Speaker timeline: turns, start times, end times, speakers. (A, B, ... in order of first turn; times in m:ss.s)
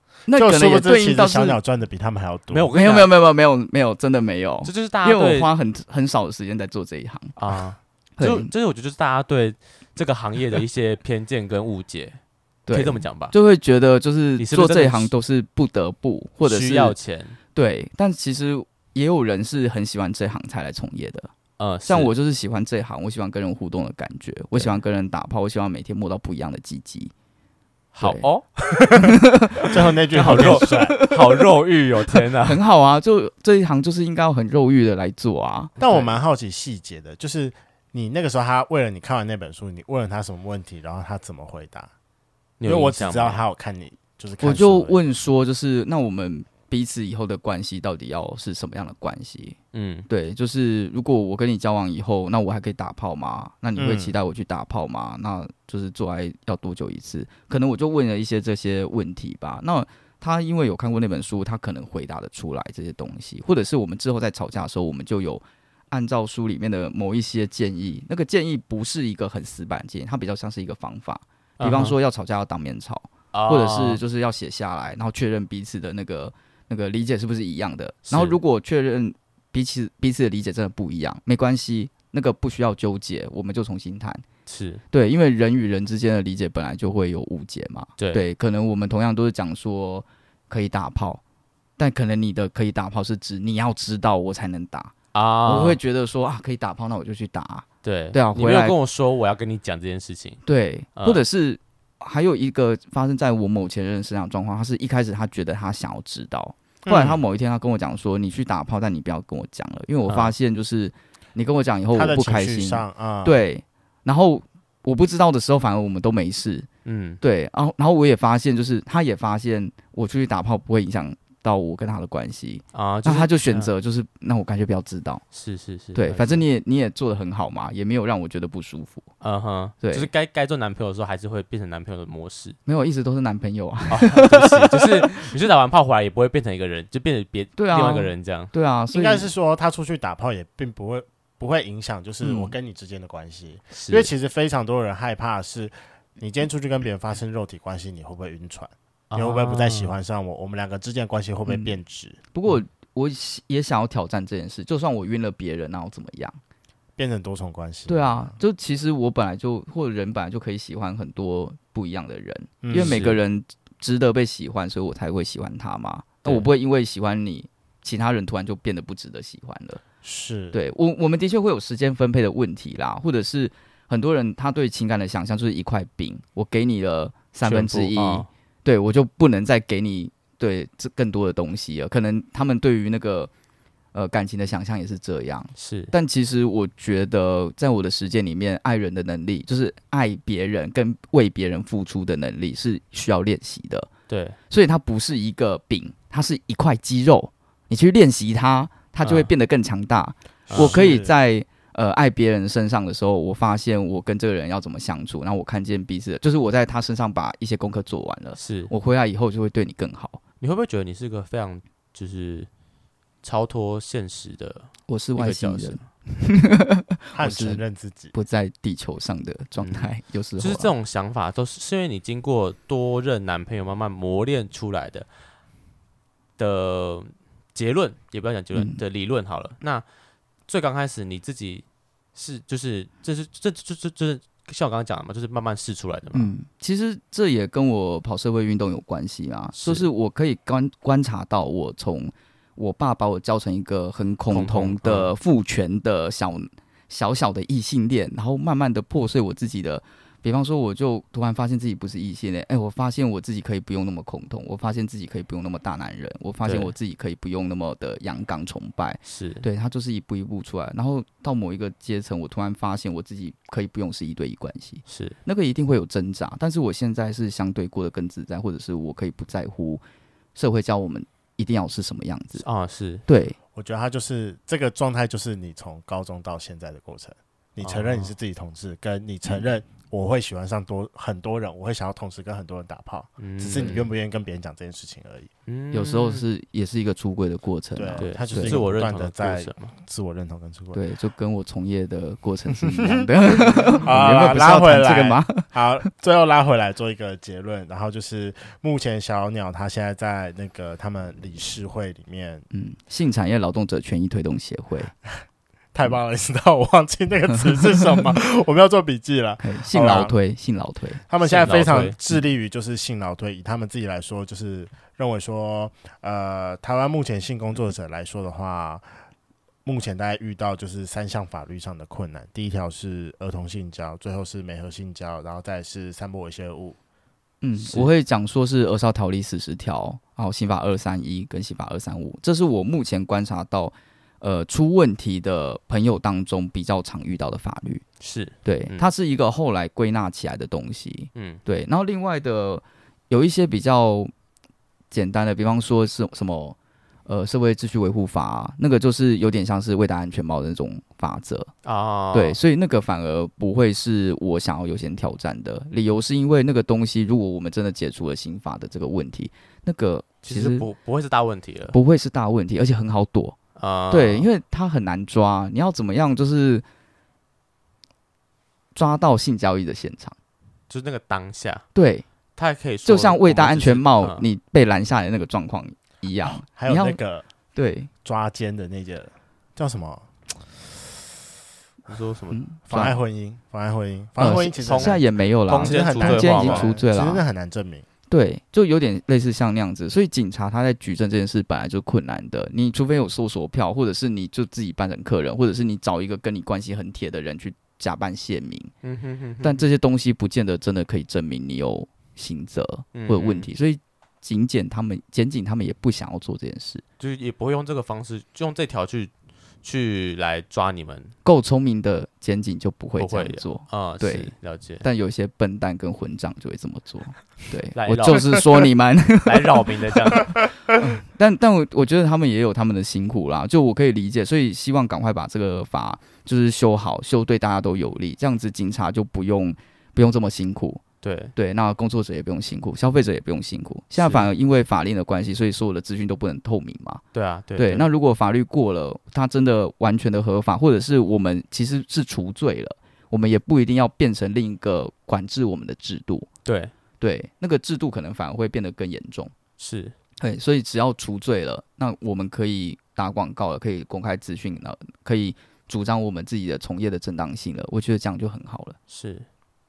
0:00.3-0:01.6 A
0:00.3-0:02.7 B
0:02.5-0:03.1 C
0:02.7-0:07.4 A
0:04.6-0:05.5 C
0:07.4-0:12.2 C
0:08.2-0:08.5 A
0:12.7-0:17.0 A
0:12.7-0:13.3 C
0:14.4-0:15.1 C
0:16.4-0:17.4 C
0:17.5-0:21.3 A
0:21.6-0:22.1 C
0:21.8-0:27.1 A
0:27.9-0:28.5 C
0:29.3-0:31.4 A
0:29.7-0:31.0 B
0:30.1-0:32.6 C
0:32.4-0:36.0 A
0:35.8-0:41.9 B
0:42.6-0:43.4 C
0:42.6-0:45.0 B
0:44.4-0:49.6 A
0:49.7-0:50.1 C
0:50.1-1:24.2 A
0:53.8-0:54.1 B
1:11.6-1:12.0 C
1:13.3-1:14.0 C
1:18.1-1:18.4 C
1:24.5-1:24.8 C
1:24.9-1:31.2 A
1:28.0-1:28.2 C
1:31.8-1:34.9 A
1:35.1-1:35.8 C
1:35.4-1:38.8 A
1:37.8-1:40.4 C
1:40.4-1:56.7 A
1:41.0-1:41.2 C
1:46.8-1:47.2 B
1:50.1-1:50.3 C
1:51.9-1:53.4 B
1:56.8-1:57.2 C
1:57.2-2:05.2 A
2:02.7-2:03.7 C
2:05.3-2:06.4 C
2:05.9-2:09.1 A
2:09.2-2:12.6 C
2:09.8-2:10.1 A
2:12.6-2:15.3 A
2:13.9-2:18.5 C
2:17.6-2:19.3 A
2:18.9-2:32.2 B
2:22.2-2:22.5 A
2:23.7-2:24.1 C
2:29.1-2:29.9 C
2:31.5-2:31.8 A
2:32.3-2:36.4 A
2:37.0-2:38.4 B
2:37.9-2:49.8 A
2:42.6-2:43.0 B
2:42.7-2:43.2 C
2:50.0-2:50.6 B
2:50.5-3:03.3 A
2:57.4-2:58.3 C
3:03.9-3:13.9 A
3:05.6-3:05.9 C
3:14.1-3:14.4 C
3:14.5-3:30.2 A
3:19.0-3:19.3 C
3:20.5-3:20.7 C
3:20.5-3:21.1 B
3:28.4-3:28.7 C
3:30.4-3:32.5 C
3:33.2-3:35.8 C
3:34.9-3:37.6 A
3:37.1-3:38.1 B
3:38.1-3:40.7 A
3:39.6-3:45.1 C
3:46.4-3:49.8 C
3:48.5-3:48.8 A
3:50.5-3:56.3 C
3:56.1-4:29.8 A
3:59.5-3:59.9 C
4:04.3-4:05.1 C
4:16.4-4:16.7 C
4:19.1-4:19.4 C
4:24.9-4:25.2 C
4:30.3-4:32.4 A
4:32.4-4:33.0 C
4:33.1-4:33.4 A
4:33.5-4:45.3 B
4:37.6-4:38.1 C
4:43.2-4:43.8 C
4:43.4-4:43.9 A
4:45.4-4:46.2 C
4:45.7-4:48.6 A
4:47.7-4:50.8 B
4:48.0-4:49.7 C
4:50.7-4:55.6 A
4:52.6-5:02.4 B
5:02.5-5:04.9 A
5:05.7-5:10.1 B
5:09.4-5:11.0 A
5:11.1-5:18.8 B
5:11.2-5:12.0 C
5:19.6-5:26.8 B
5:27.4-5:37.8 A
5:27.6-5:27.9 C
5:38.0-5:38.9 C
5:38.4-5:44.1 A
5:41.1-5:41.4 C
5:44.9-5:46.6 A
5:47.1-5:51.5 A
5:51.6-5:52.4 C
5:52.1-6:00.6 A
6:00.2-6:01.8 C
6:01.7-6:03.4 A
6:03.6-6:04.2 C
6:03.9-6:06.6 A
6:08.7-6:10.1 A
6:10.7-6:11.6 C
6:11.7-6:12.0 A
6:12.4-6:14.2 C
6:12.8-6:17.0 A
6:16.5-6:17.2 B
6:17.5-6:17.9 A
6:18.0-6:21.1 B
6:21.9-6:22.4 C
6:22.3-6:23.0 A
6:22.7-6:27.8 B
6:24.2-6:27.2 A
6:24.6-6:26.7 C
6:28.1-6:38.7 A
6:38.8-6:39.6 C
6:39.4-6:46.8 A
6:42.9-6:43.5 C
6:47.0-6:49.1 C
6:49.6-6:51.1 C
6:51.2-7:10.8 A
6:53.0-6:54.8 C
6:57.7-6:58.5 C
6:59.2-7:00.4 C
7:11.0-7:11.3 C
7:11.4-7:17.0 A
7:14.0-7:14.3 C
7:17.1-7:17.9 C
7:17.6-7:26.3 A
7:26.4-7:26.7 C
7:27.0-7:29.3 A
7:29.6-7:29.9 C
7:30.2-7:38.8 A
7:38.9-7:39.2 C